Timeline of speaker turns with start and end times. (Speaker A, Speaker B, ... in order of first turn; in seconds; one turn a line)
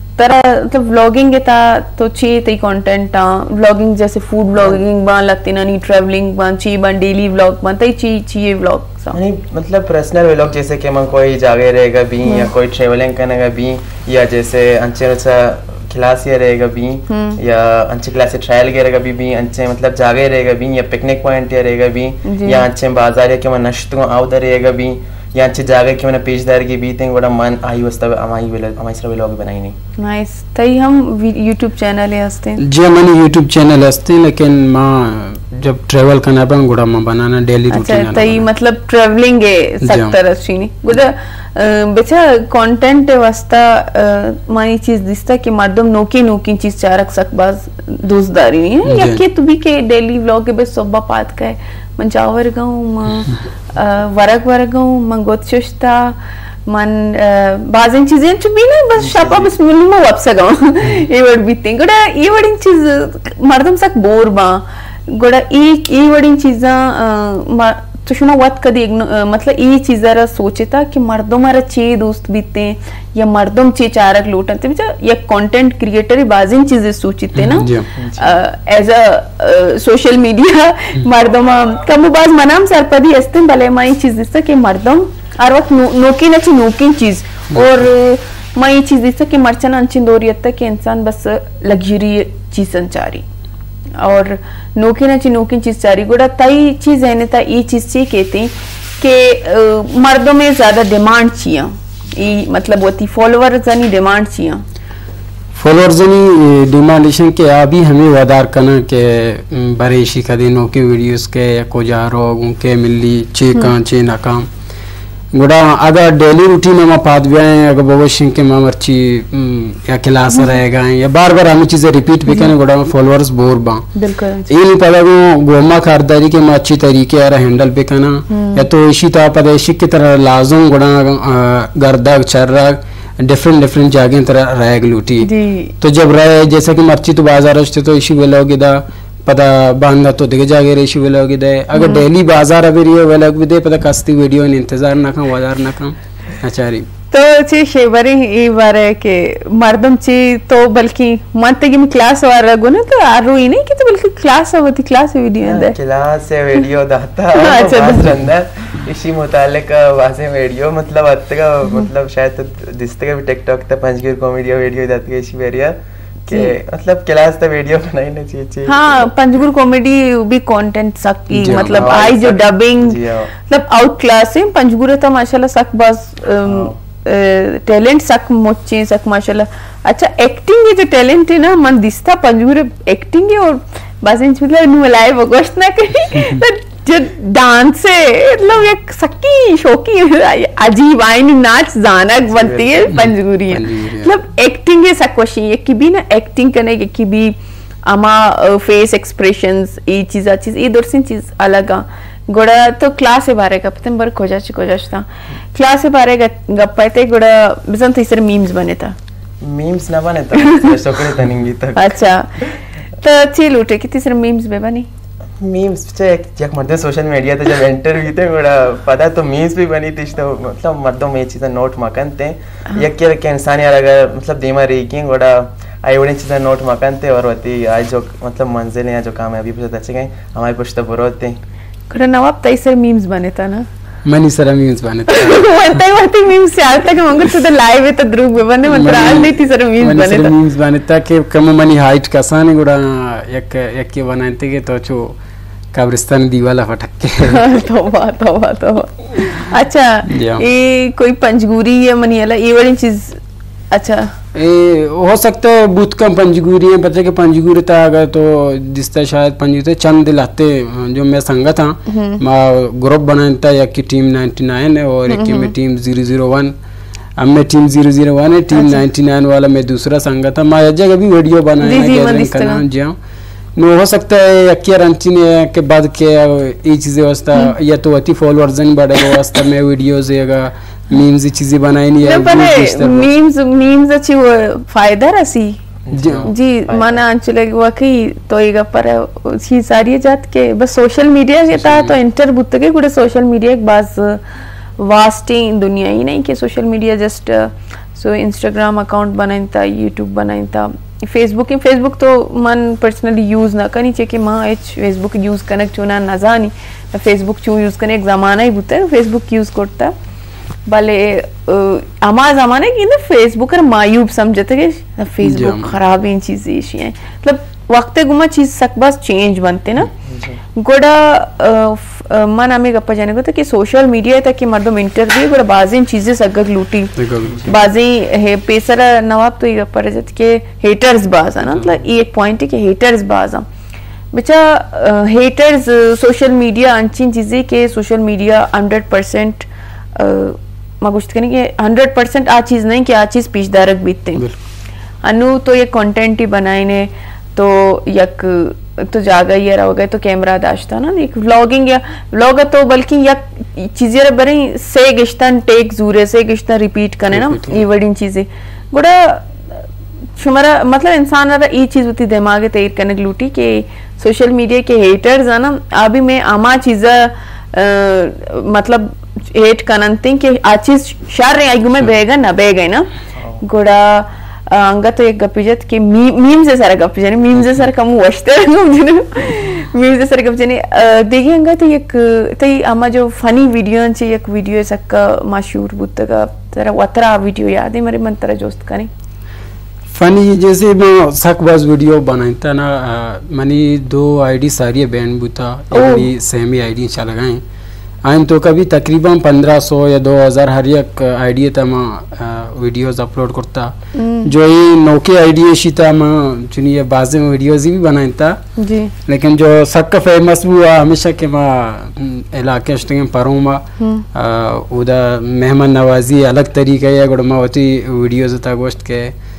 Speaker A: 0.2-9.2
Speaker B: 9.1-29.8
Speaker A: 17.1-17.4
Speaker A: 22.3-22.6
Speaker A: 30.0-32.6
Speaker C: 32.6-38.5
Speaker A: 37.7-93.2
Speaker C: 39.8-40.2
Speaker C: 48.9-49.2
Speaker B: 59.0-59.5
Speaker C: 77.3-77.9
Speaker B: 78.0-78.4
Speaker C: 87.5-87.8
Speaker A: 94.0-104.6
Speaker C: 105.5-114.5
Speaker C: 115.3-123.9
Speaker A: 124.0-124.5
Speaker C: 124.5-146.9
Speaker A: 128.3-128.7
Speaker A: 135.2-135.7
Speaker A: 141.8-142.1
Speaker A: 147.1-155.8
Speaker B: 155.4-169.1
Speaker A: 157.3-158.1
Speaker A: 168.7-209.0
Speaker C: 171.3-171.9
Speaker B: 171.7-173.3
Speaker B: 176.5-176.8
Speaker B: 192.3-192.8
Speaker C: 192.9-194.1
Speaker B: 209.4-212.0
Speaker A: 210.4-210.7
Speaker A: 211.8-214.9
Speaker B: 215.4-231.4
Speaker A: 231.9-233.7
Speaker C: 234.1-235.8
Speaker A: 235.1-240.3
Speaker C: 238.7-245.2
Speaker C: 245.7-247.5
Speaker A: 247.2-253.2
Speaker C: 250.1-250.4
Speaker A: 253.7-254.1
Speaker C: 254.3-266.6
Speaker A: 261.9-262.2
Speaker A: 265.1-265.5
Speaker C: 267.2-273.0
Speaker A: 268.5-268.8
Speaker A: 271.6-272.6
Speaker C: 273.6-283.1
Speaker A: 282.0-285.6
Speaker B: 285.9-287.0
Speaker C: 285.9-286.3
Speaker A: 286.3-294.2
Speaker C: 291.6-291.9
Speaker A: 294.8-309.9
Speaker A: 310.7-319.9
Speaker C: 315.2-315.8
Speaker B: 320.0-320.4
Speaker A: 320.6-333.5
Speaker C: 327.0-327.5
Speaker C: 331.5-331.8
Speaker A: 334.1-344.3
Speaker A: 345.0-372.9
Speaker C: 357.1-357.6
Speaker A: 373.4-388.9
Speaker C: 389.9-397.4
Speaker A: 395.7-396.1
Speaker C: 398.0-408.4
Speaker A: 403.9-404.3
Speaker A: 408.6-408.9
Speaker C: 409.1-419.1
Speaker A: 413.8-414.1